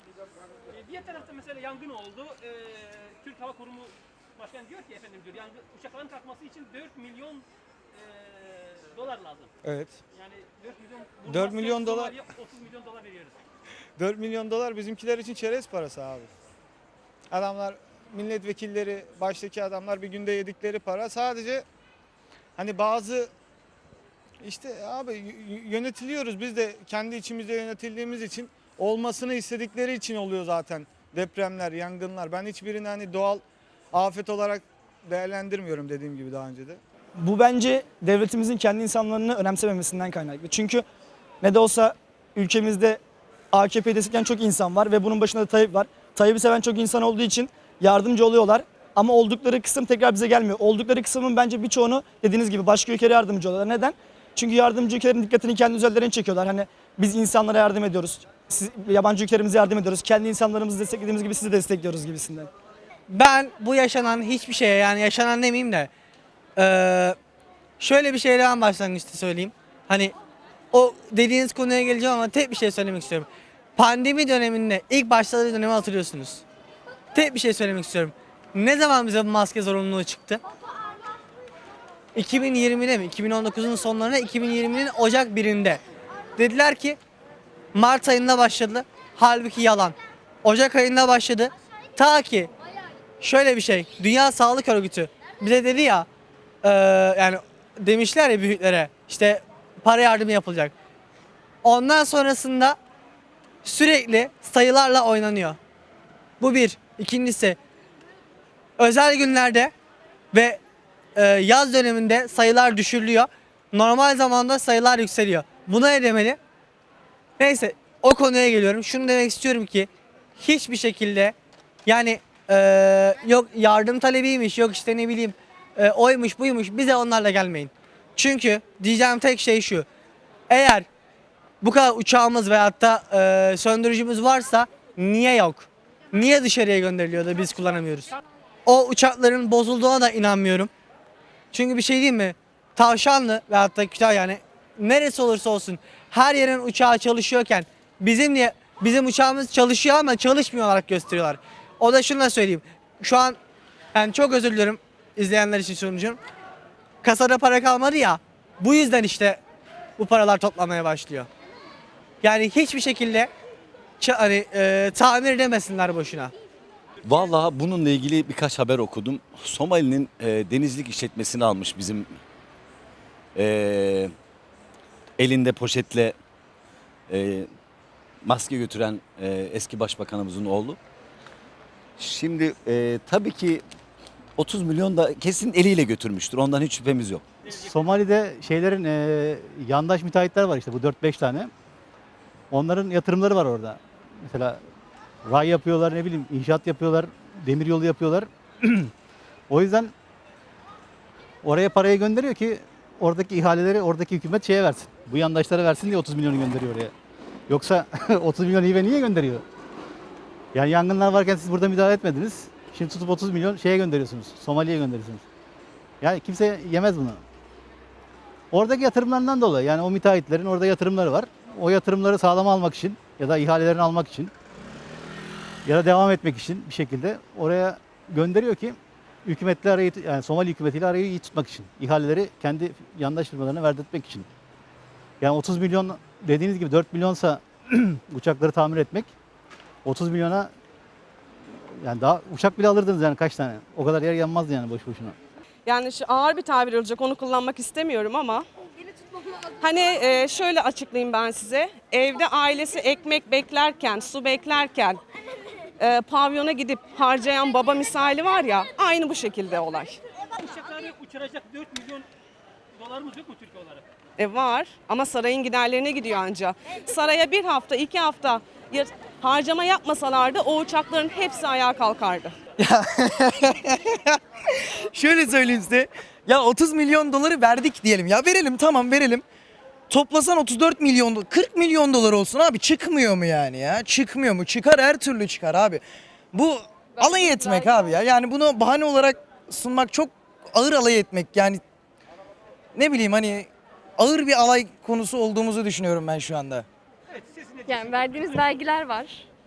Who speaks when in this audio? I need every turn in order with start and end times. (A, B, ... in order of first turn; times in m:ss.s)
0:00.8-0:07.4 A
0:08.0-0:09.5 A
0:09.6-0:10.0 B
0:10.2-0:13.4 A
0:11.3-0:12.2 B
0:14.0-0:16.3 B
0:17.3-0:21.6 B
0:22.6-0:23.3 B
0:24.4-0:36.8 B
0:37.2-0:40.8 C
0:41.4-0:43.0 C
0:43.5-1:02.5 C
1:03.1-1:05.9 D
1:06.6-1:07.2 D
1:07.8-1:10.1 D
1:10.7-1:16.4 D
1:17.1-1:20.4 D
1:22.1-1:25.8 D
1:26.4-1:27.0 D
1:27.7-1:32.5 D
1:33.2-1:36.1 D
1:36.6-1:40.7 D
1:41.6-1:42.8 D
1:43.6-1:45.6 D
1:46.4-1:47.6 D
1:48.8-1:49.7 D
1:50.3-1:50.6 D
1:51.1-1:56.4 D
1:57.4-2:01.3 D
2:01.8-2:09.8 D
2:10.5-2:10.8 D
2:11.6-2:20.7 D
2:21.5-2:33.4 D
2:33.9-2:36.2 D
2:37.0-2:39.4 D
2:40.0-2:41.3 D
2:42.2-2:43.3 D
2:44.0-2:46.3 D
2:47.0-2:52.1 E
2:53.3-2:54.1 E
2:55.2-2:56.2 E
2:57.1-2:57.5 E
2:58.2-3:00.8 E
3:02.0-3:03.6 E
3:04.4-3:07.2 E
3:07.5-3:11.5 F
3:12.5-3:14.6 F
3:15.2-3:18.9 F
3:19.5-3:19.9 F
3:21.4-3:26.9 F
3:27.5-3:29.4 F
3:30.5-3:35.2 F
3:36.0-3:37.2 F
3:38.5-3:44.3 F
3:45.6-3:54.3 F
3:55.2-3:59.1 F
3:59.8-4:00.5 F
4:01.8-4:05.1 F
4:05.6-4:08.4 G
4:09.6-4:15.0 G
4:15.8-4:20.0 G
4:20.4-4:22.1 A
4:22.8-4:23.8 A
4:24.2-4:32.4 G
4:32.6-4:34.0 H
4:34.9-4:39.2 H
4:39.9-4:51.6 H
4:47.0-4:47.9 I
4:52.7-4:56.6 H
4:57.2-4:58.3 A
4:57.6-4:59.3 I